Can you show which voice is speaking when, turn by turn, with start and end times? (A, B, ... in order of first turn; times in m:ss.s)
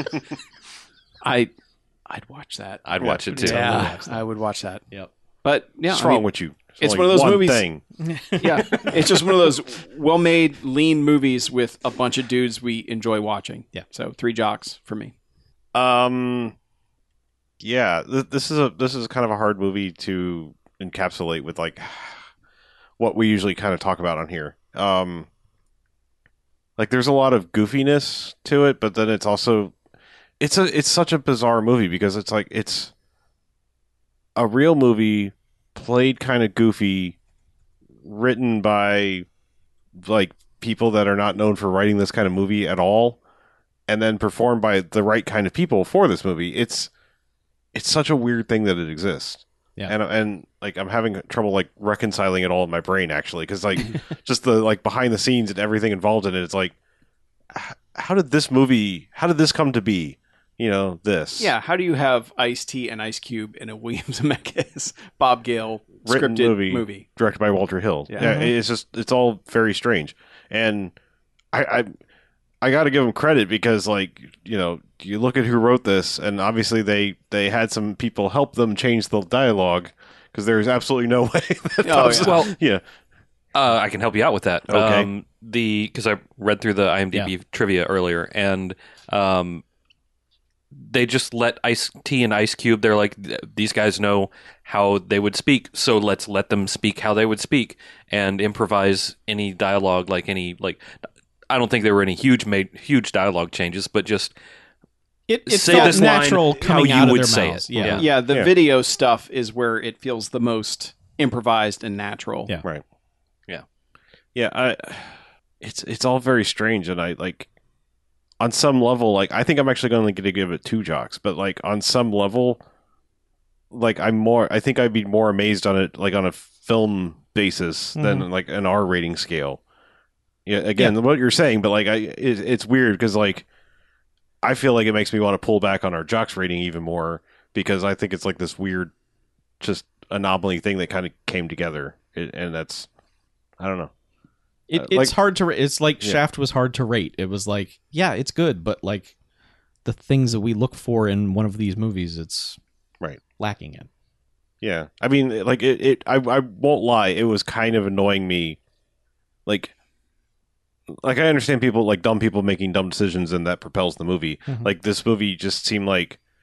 0:01.2-0:01.5 A
0:02.1-0:04.8 A
0:02.8-0:04.0 B
0:03.4-0:04.2 C
0:05.4-0:06.2 A
0:05.9-0:07.8 D
0:06.8-0:07.6 A
0:08.0-0:09.0 C
0:08.4-0:15.1 A
0:15.7-0:16.5 D
0:17.6-0:22.2 D
0:23.0-0:25.3 D
0:26.8-0:29.7 D
0:30.4-0:32.9 D
0:34.4-0:37.2 D
0:38.0-0:39.2 D
0:40.0-0:43.2 D
0:43.9-0:46.9 D
0:47.7-0:56.7 D
0:57.5-1:01.5 D
1:01.4-1:07.0 A
1:06.0-1:10.9 D
1:08.1-1:08.4 A
1:08.2-1:08.5 C
1:11.5-1:11.9 D
1:12.6-1:22.8 D
1:21.8-1:22.4 A
1:22.0-1:22.5 B
1:23.5-1:29.6 B
1:24.7-1:25.1 D
1:30.7-1:40.8 B
1:41.5-1:44.3 B
1:45.3-1:48.0 C
1:45.5-1:48.0 B
1:45.7-1:46.1 A
1:47.9-1:52.5 A
1:48.3-1:48.5 D
1:54.3-1:57.5 D
1:58.4-2:02.6 D
2:03.7-2:09.6 D
2:08.0-2:08.3 C
2:10.4-2:13.4 D
2:14.4-2:18.9 D
2:19.6-2:22.9 D
2:23.6-2:23.9 D
2:24.7-2:29.1 C
2:24.7-2:25.2 D
2:29.8-2:32.6 C
2:33.4-2:33.9 C
2:34.6-2:38.6 D
2:39.4-2:39.7 D
2:40.9-2:46.2 D